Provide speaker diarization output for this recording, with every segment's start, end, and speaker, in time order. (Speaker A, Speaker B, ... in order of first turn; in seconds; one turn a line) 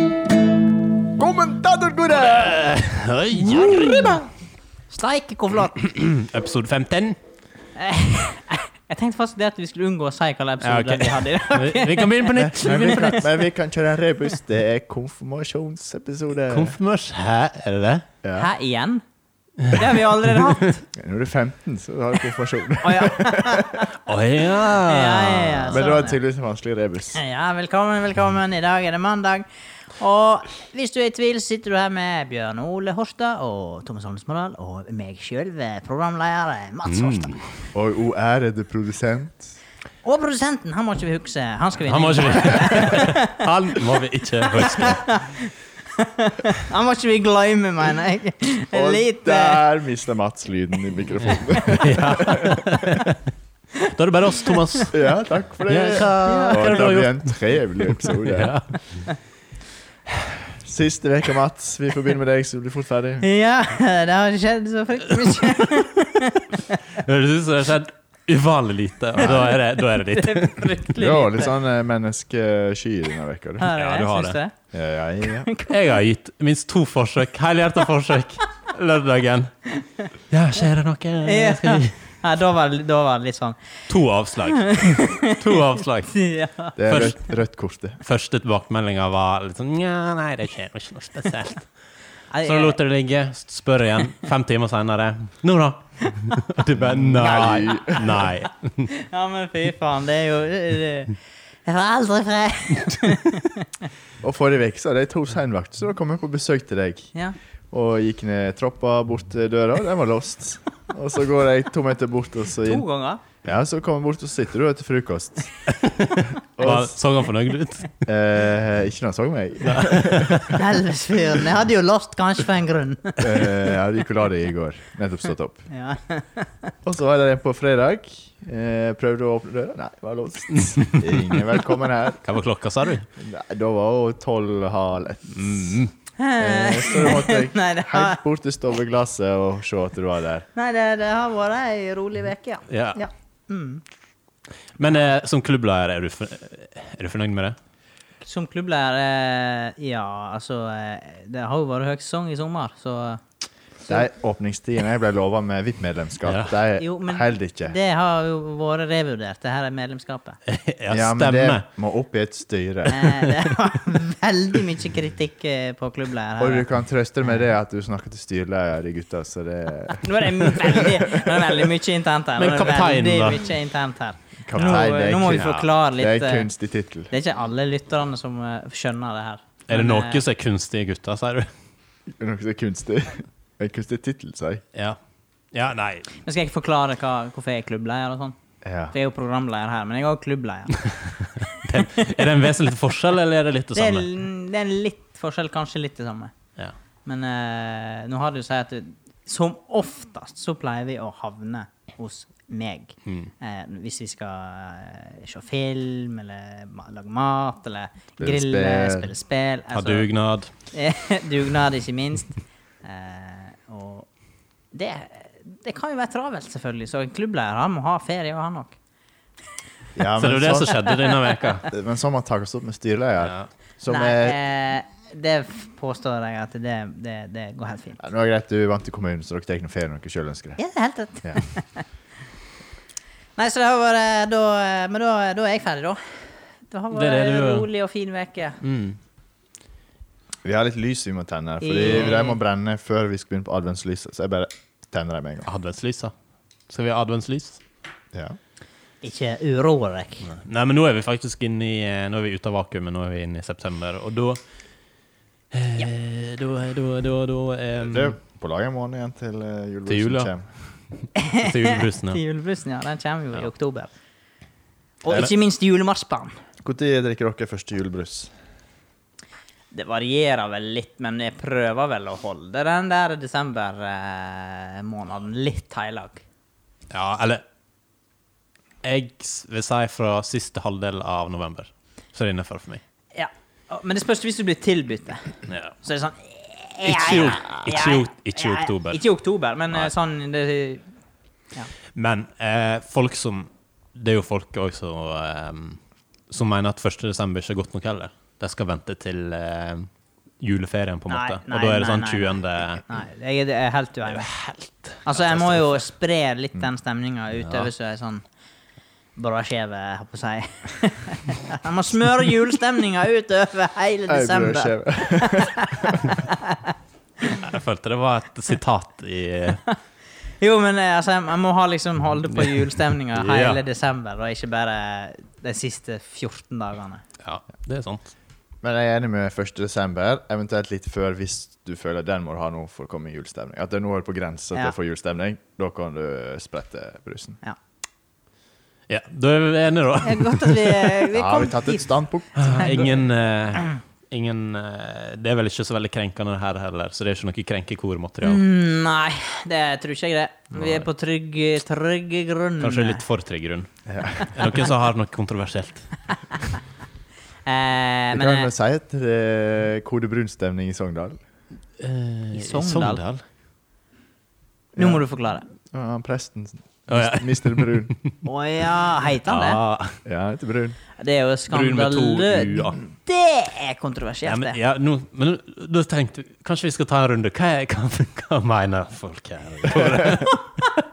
Speaker A: 1.2-2.6
Speaker B: 2.1-4.2
Speaker A: 3.5-4.2
Speaker C: 3.8-4.1
Speaker C: 4.9-5.7
Speaker B: 5.8-7.2
Speaker C: 7.8-13.1
Speaker B: 10.6-13.3
Speaker A: 12.3-16.7
Speaker B: 16.5-18.1
Speaker A: 18.2-18.5
Speaker C: 18.3-19.0
Speaker C: 19.7-20.8
Speaker A: 20.9-23.9
Speaker C: 22.8-23.9
Speaker B: 24.0-25.8
Speaker C: 24.8-26.2
Speaker A: 25.7-27.2
Speaker C: 27.1-37.3
Speaker B: 36.9-37.5
Speaker A: 37.7-39.6
Speaker C: 40.0-43.4
Speaker B: 41.9-45.2
Speaker C: 44.5-49.6
Speaker A: 48.7-52.8
Speaker B: 51.7-53.2
Speaker B: 53.9-55.0
Speaker A: 54.9-58.6
Speaker B: 55.6-59.0
Speaker C: 56.2-56.9
Speaker A: 60.4-63.2
Speaker C: 63.2-66.8
Speaker B: 66.9-70.8
Speaker A: 69.2-69.5
Speaker C: 69.2-71.5
Speaker A: 71.0-73.7
Speaker C: 73.6-74.5
Speaker B: 73.7-74.4
Speaker A: 74.7-75.5
Speaker C: 75.5-75.7
Speaker B: 75.7-79.5
Speaker B: 80.3-82.0
Speaker C: 81.2-83.7
Speaker B: 83.9-86.1
Speaker C: 84.5-85.5
Speaker C: 86.1-86.7
Speaker A: 86.8-88.0
Speaker B: 86.9-87.2
Speaker B: 88.0-91.7
Speaker C: 92.3-92.8
Speaker B: 92.4-98.9
Speaker A: 96.8-98.3
Speaker C: 97.2-98.2
Speaker C: 98.9-103.7
Speaker A: 104.2-107.1
Speaker A: 107.7-112.8
Speaker C: 112.6-113.2
Speaker A: 113.4-115.5
Speaker B: 115.7-117.9
Speaker A: 116.6-117.0
Speaker A: 118.0-120.6
Speaker B: 119.6-120.6
Speaker C: 120.5-123.5
Speaker A: 123.2-125.6
Speaker C: 125.7-126.7
Speaker A: 126.8-132.2
Speaker B: 130.5-131.5
Speaker B: 132.2-133.1
Speaker A: 133.2-135.8
Speaker B: 135.3-135.9
Speaker C: 136.2-138.2
Speaker A: 136.4-140.4
Speaker C: 140.5-143.8
Speaker B: 142.7-143.0
Speaker B: 144.8-147.6
Speaker C: 148.2-153.2
Speaker A: 153.9-157.7
Speaker B: 156.2-156.5
Speaker C: 156.8-160.4
Speaker B: 160.5-161.6
Speaker A: 160.9-163.2
Speaker C: 162.9-166.6
Speaker A: 166.4-171.7
Speaker C: 169.9-176.5
Speaker B: 172.4-173.5
Speaker A: 174.4-177.1
Speaker B: 175.4-175.6
Speaker C: 177.1-180.2
Speaker B: 179.7-181.5
Speaker A: 182.2-184.6
Speaker B: 185.5-186.1
Speaker C: 186.2-188.3
Speaker A: 188.6-188.9
Speaker C: 188.9-190.9
Speaker B: 190.8-194.1
Speaker C: 191.5-192.2
Speaker C: 193.7-196.3
Speaker C: 197.0-210.1
Speaker B: 203.1-203.3
Speaker A: 208.2-209.1
Speaker B: 209.7-210.5
Speaker C: 210.7-214.1
Speaker C: 214.7-218.8
Speaker A: 219.9-220.8
Speaker B: 220.1-221.7
Speaker A: 221.7-224.4
Speaker B: 223.2-223.5
Speaker C: 223.9-228.0
Speaker A: 228.0-230.6
Speaker C: 230.6-231.8
Speaker C: 233.4-238.6
Speaker B: 236.9-237.7
Speaker B: 238.6-239.0
Speaker A: 240.4-245.5
Speaker C: 241.6-242.4
Speaker B: 245.5-246.1
Speaker B: 246.7-247.6
Speaker C: 249.0-250.3
Speaker B: 250.2-254.4
Speaker B: 255.5-258.1
Speaker A: 257.9-260.5
Speaker B: 259.9-260.3
Speaker C: 261.2-263.9
Speaker B: 261.3-262.2
Speaker C: 265.0-266.4
Speaker A: 266.6-268.3
Speaker C: 269.7-276.2
Speaker B: 276.9-277.4
Speaker B: 278.8-282.8
Speaker C: 283.1-290.8
Speaker B: 285.5-285.8
Speaker B: 286.8-289.0
Speaker B: 291.9-295.8
Speaker B: 296.3-299.9
Speaker B: 300.4-302.8
Speaker C: 301.1-304.3
Speaker B: 304.1-305.8
Speaker C: 305.0-308.2
Speaker B: 307.4-307.7
Speaker C: 309.1-316.7
Speaker A: 314.1-316.0
Speaker B: 317.3-319.6
Speaker C: 320.4-327.0
Speaker B: 322.3-323.6
Speaker B: 327.2-328.1
Speaker A: 328.6-337.4
Speaker B: 338.9-341.0
Speaker C: 340.0-341.9
Speaker A: 341.1-343.0
Speaker B: 342.4-348.4
Speaker C: 348.2-353.0
Speaker B: 350.5-350.8
Speaker B: 352.6-353.7
Speaker A: 353.9-354.3
Speaker B: 354.2-355.9
Speaker C: 357.4-358.5
Speaker A: 358.1-361.2
Speaker B: 361.8-363.2
Speaker C: 362.3-363.0
Speaker A: 364.7-365.0
Speaker C: 364.8-365.5
Speaker A: 365.7-367.9
Speaker B: 366.9-368.1
Speaker C: 368.2-369.6
Speaker B: 369.3-370.0
Speaker A: 370.0-370.8
Speaker C: 371.0-374.6
Speaker B: 371.5-372.8
Speaker B: 374.2-380.7